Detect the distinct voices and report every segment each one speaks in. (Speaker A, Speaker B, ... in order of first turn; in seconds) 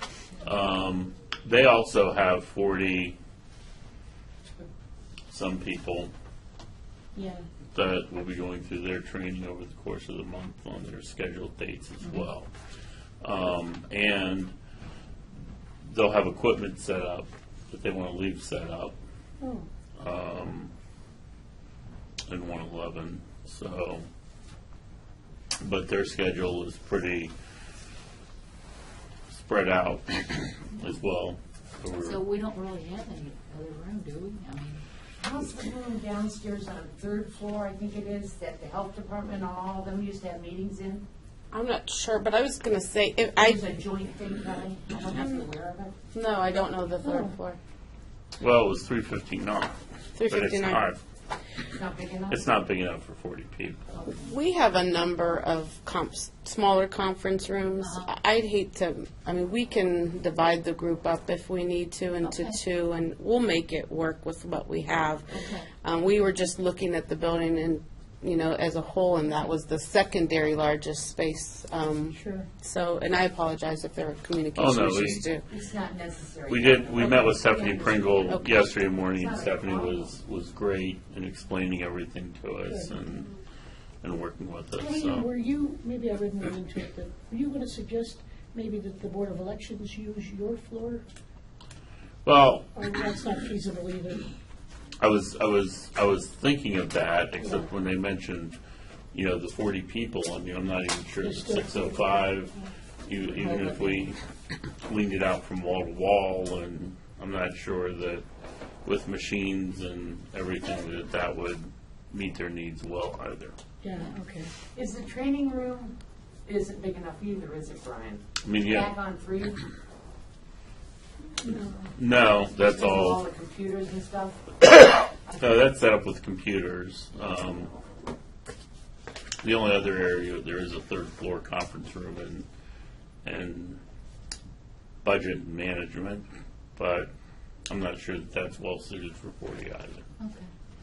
Speaker A: 0.4-3.2, 5.3-6.1, 7.7-12.5, 13.2-14.5, 15.8-18.9, 20.0-20.7, 22.3-24.0, 25.6-27.3, 29.3-32.3, 48.4-51.0, 52.3-53.9, 74.5-75.3, 76.5-83.3, 84.0-85.3, 92.2-92.7, 95.0-98.6, 99.1-102.5, 103.0-104.2, 104.8-108.2, 108.8-113.5, 118.4-119.0, 121.4-123.2, 125.4-127.7, 129.4-132.4, 133.2-133.8, 135.0-136.2, 136.8-137.1, 137.7-140.1
Speaker B: 19.4-19.7, 47.0-47.3, 72.1-72.5, 82.6-83.0, 84.8-91.0, 92.7-94.3, 97.4-97.7, 101.2-102.7, 113.8-114.5
Speaker C: 32.0-34.8, 57.8-58.1, 62.2-62.6, 65.3-65.7, 140.2-140.5
Speaker D: 35.2-41.0, 43.4-45.9, 51.7-52.5, 75.3-80.1, 114.7-115.9, 116.5-119.6, 122.3-125.8
Speaker E: 41.5-43.6, 46.1-47.6, 50.1-50.8, 54.1-65.3, 65.8-75.4, 78.3-78.5